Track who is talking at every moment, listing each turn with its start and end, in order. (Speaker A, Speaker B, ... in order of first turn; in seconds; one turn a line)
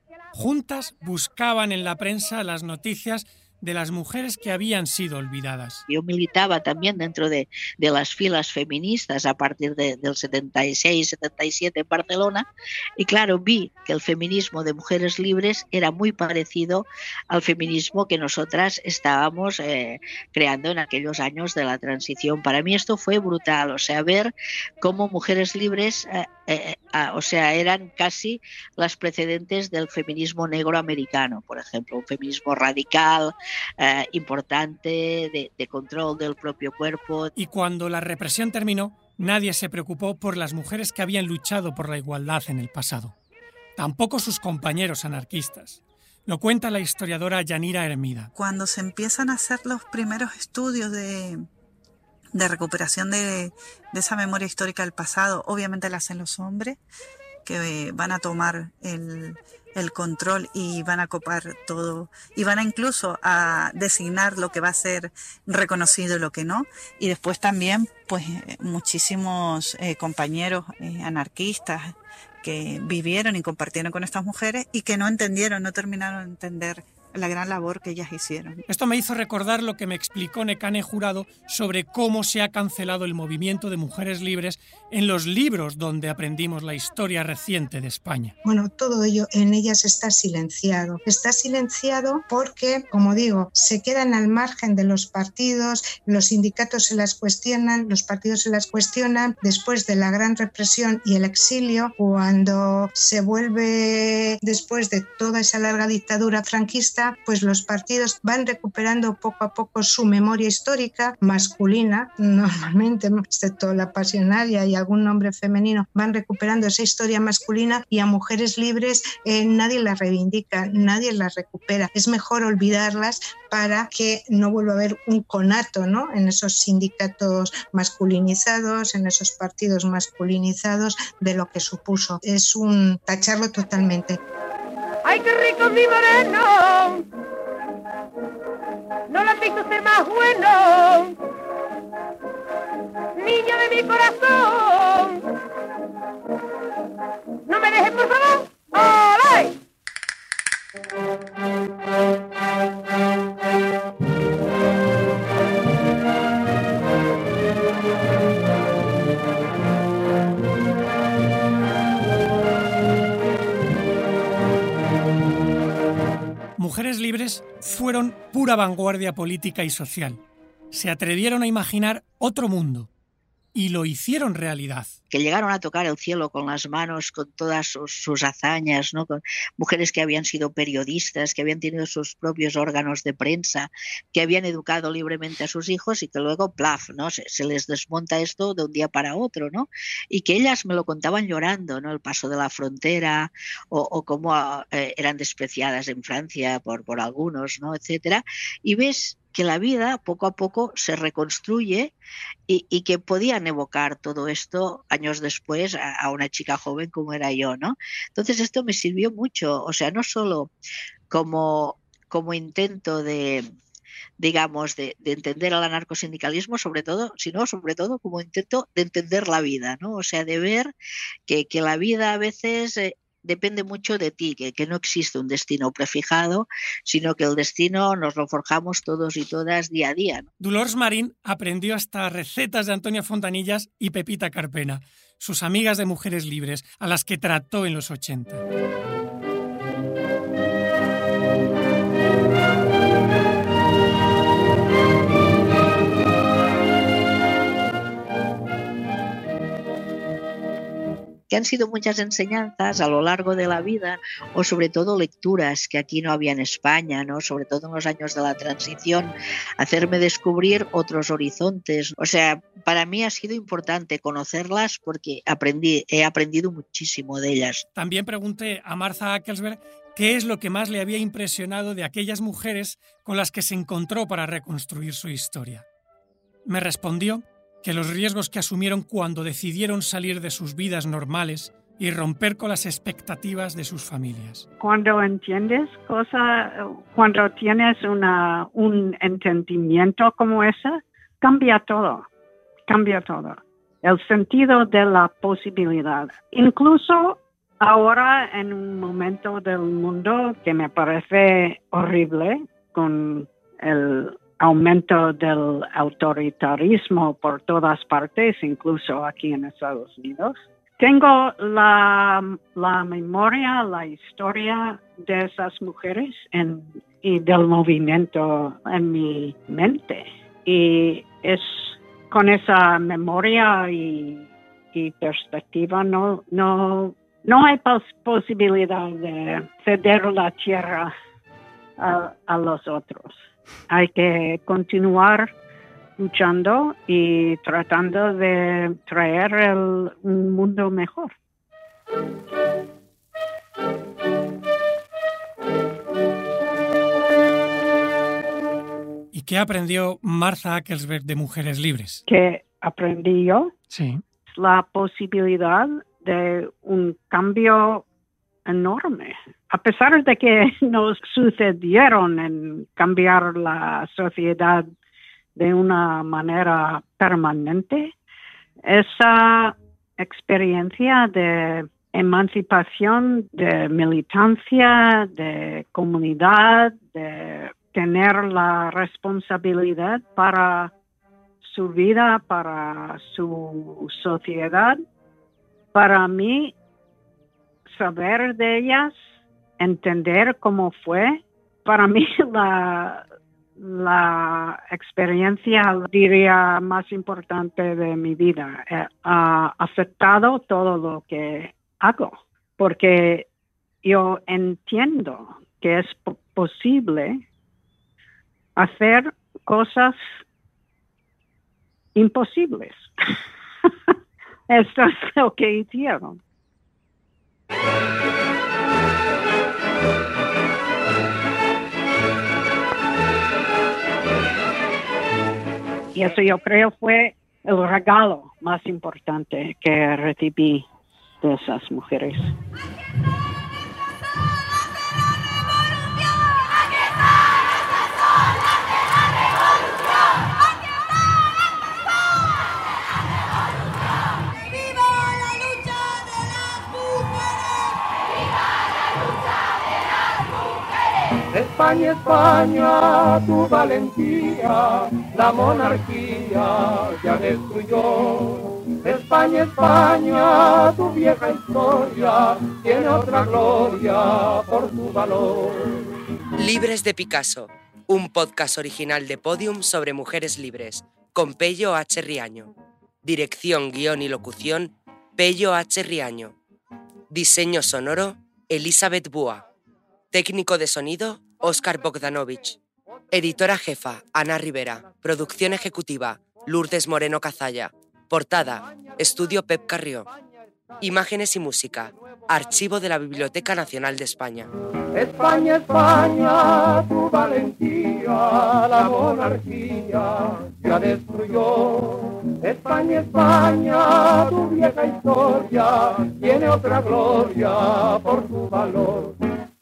Speaker A: 0.3-5.8
Speaker B: 5.9-12.5
Speaker B: 13.0-37.3
Speaker A: 37.4-43.1
Speaker A: 43.8-48.3
Speaker C: 48.4-51.5
Speaker C: 52.4-56.8
Speaker C: 57.5-78.6
Speaker A: 78.7-88.3
Speaker D: 88.4-134.2
Speaker E: 135.1-137.1
Speaker E: 139.1-141.2
Speaker E: 143.2-145.3
Speaker E: 147.5-149.6
Speaker A: 166.6-170.2
Speaker A: 170.7-172.9
Speaker A: 173.5-174.9
Speaker B: 175.1-201.9
Speaker B: 202.5-210.5
Speaker B: 211.1-213.5
Speaker B: 214.2-220.7
Speaker B: 221.3-230.3
Speaker A: 230.4-238.4
Speaker B: 251.3-267.6
Speaker A: 267.8-275.6
Speaker A: 276.5-284.5
Speaker F: 284.6-292.1
Speaker F: 292.7-330.9
Speaker F: 331.8-333.2
Speaker F: 333.7-335.3
Speaker F: 336.0-341.1
Speaker A: 349.1-352.0
Speaker F: 352.1-353.5
Speaker A: 353.7-354.0
Speaker F: 354.3-357.8
Speaker F: 358.5-364.7
Speaker F: 365.4-367.9
Speaker F: 368.7-380.7
Speaker F: 381.4-384.8
Speaker F: 385.7-386.6
Speaker F: 387.7-389.0
Speaker F: 389.6-393.0
Speaker F: 393.6-403.3
Speaker F: 403.8-407.2
Speaker F: 408.6-410.1
Speaker F: 411.9-412.9
Speaker F: 414.5-416.2
Speaker F: 425.9-430.7
Speaker F: 431.2-432.3
Speaker G: 451.3-465.9
Speaker H: 466.4-472.5
Speaker H: 473.0-476.4
Speaker H: 477.1-479.4
Speaker H: 480.1-482.6
Speaker H: 483.1-490.1
Speaker H: 490.8-494.5
Speaker G: 494.9-509.1